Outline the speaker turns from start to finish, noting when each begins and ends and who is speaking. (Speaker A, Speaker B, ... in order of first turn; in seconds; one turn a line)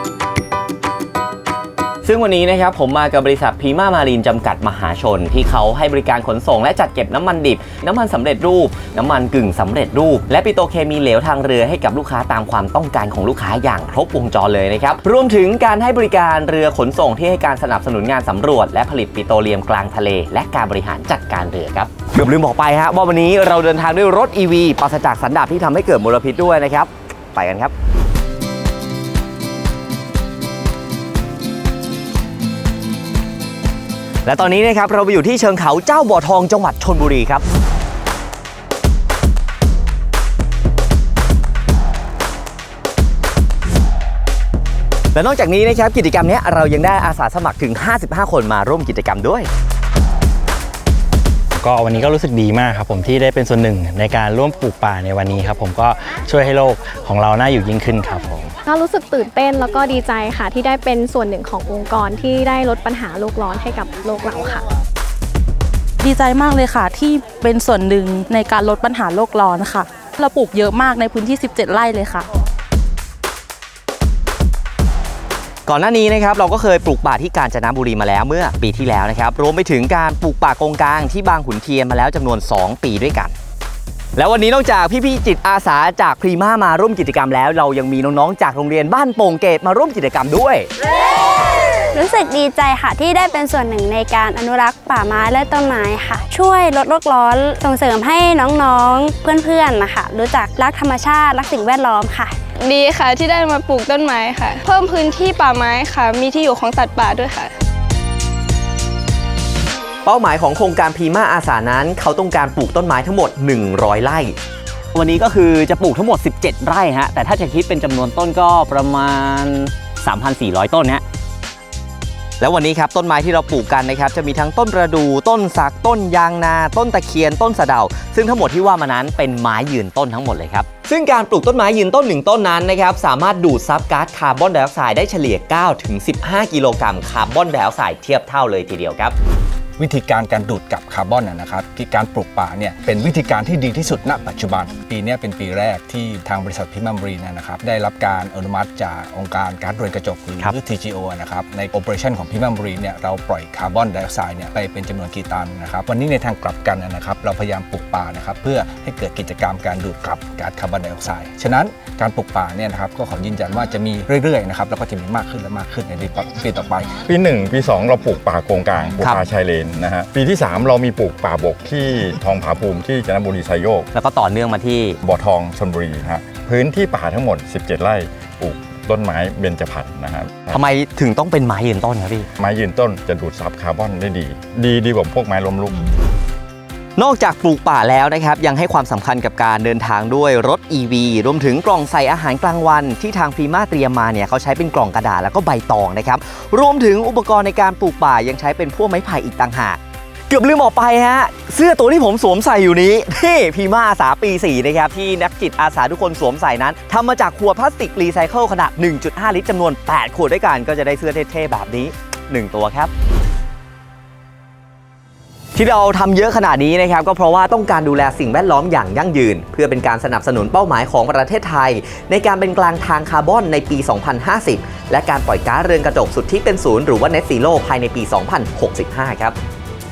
Speaker A: 2.0-27.7
Speaker A: 34.2-37.4
Speaker A: 45.1-49.5
Speaker B: 51.7-55.8
Speaker B: 57.5-58.3
Speaker C: 58.6-64.6
Speaker D: 66.0-72.3
Speaker A: 75.7-83.3
Speaker A: 84.2-90.7
Speaker E: 91.9-102.4
Speaker F: 102.6-107.5
Speaker A: 110.0-114.3
Speaker A: 114.9-121.0
Speaker A: 122.4-139.2
Speaker G: 139.8-167.0
Speaker H: 167.1-173.9
Speaker A: 173.9-175.0
Speaker H: 175.0-180.6
Speaker A: 180.5-182.3
Speaker H: 182.4-185.9
Speaker A: 187.0-212.9
Speaker A: 215.6-229.4